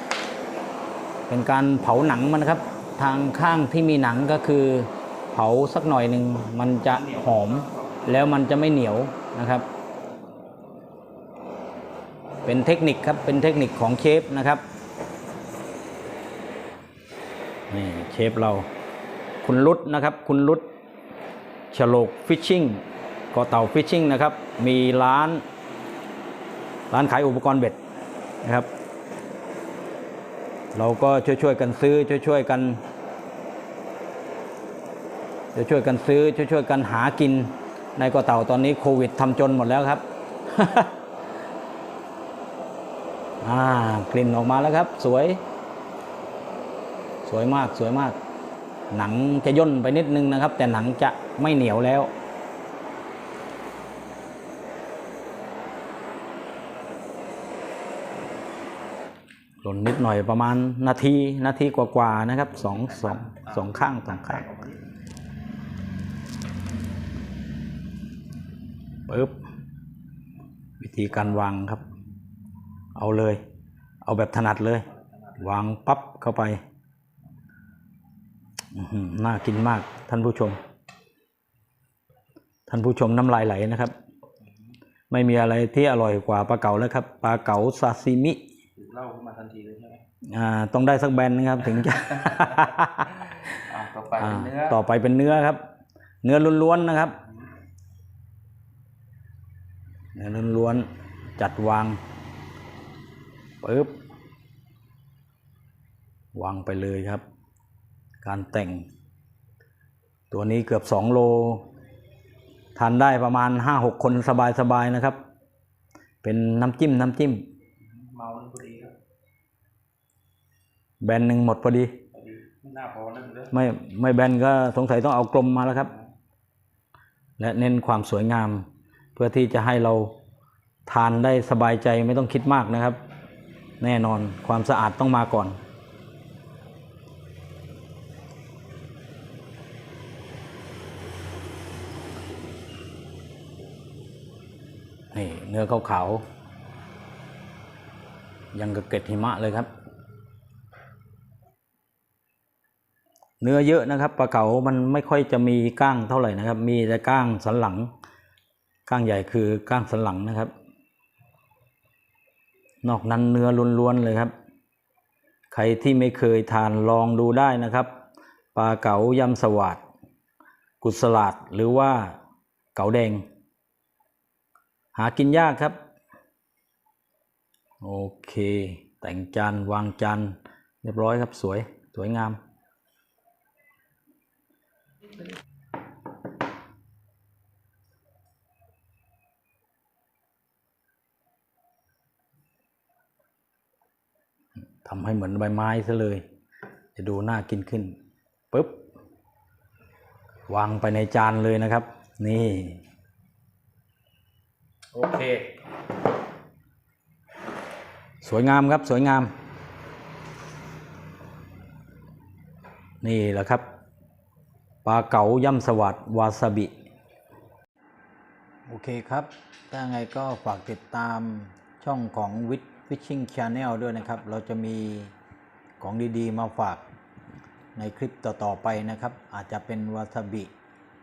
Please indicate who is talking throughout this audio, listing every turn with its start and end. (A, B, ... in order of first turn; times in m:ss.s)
0:01.3-0:09.7 A
0:06.9-0:08.2 B
0:12.4-0:14.6 A
0:17.7-0:18.7 A
0:19.4-0:20.6 A
0:21.7-0:25.4 A
0:26.9-0:27.8 A
0:28.4-0:28.7 A
0:30.7-0:32.8 A
0:35.5-0:40.9 A
0:43.4-0:45.4 A
0:47.2-0:48.2 A
0:48.9-0:52.1 A
0:59.6-1:04.5 A
1:03.0-1:04.8 B
1:09.1-1:09.4 A
1:10.8-1:11.8 A
1:12.9-1:13.4 A
1:14.0-1:16.6 A
1:18.7-1:20.6 A
1:22.7-1:23.9 A
1:25.1-1:28.4 A
1:28.8-1:30.0 B
1:30.3-1:33.5 A
1:32.2-1:32.6 B
1:33.5-1:34.8 B
1:34.2-1:35.6 A
1:36.2-1:37.2 A
1:40.1-1:40.9 A
1:41.4-1:42.0 A
1:43.6-1:43.9 A
1:46.3-1:47.2 A
1:48.2-1:48.9 A
1:50.3-1:51.6 A
1:52.8-1:55.2 A
1:56.2-1:57.5 A
1:57.9-1:58.9 B
2:01.0-2:01.9 A
2:02.1-2:03.5 B
2:03.5-2:05.9 A
2:07.4-2:10.1 A
2:10.9-2:13.0 A
2:13.8-2:15.6 A
2:25.1-2:26.2 A
2:28.5-2:29.7 A
2:33.4-2:37.9 A
2:38.9-2:40.5 A
2:42.8-2:44.3 A
2:45.5-2:47.9 A
2:48.5-2:49.8 A
2:50.8-2:52.2 A
2:52.7-2:53.2 A
2:54.9-2:55.8 A
2:57.8-3:02.4 A
3:14.8-3:16.2 A
3:17.0-3:18.0 A
3:18.5-3:18.8 A
3:20.5-3:22.8 A
3:25.0-3:25.3 A
3:28.2-3:29.3 A
3:33.0-3:33.6 A
3:34.8-3:36.7 A
3:38.7-3:45.1 A
3:45.8-3:46.8 A
3:47.8-3:50.5 A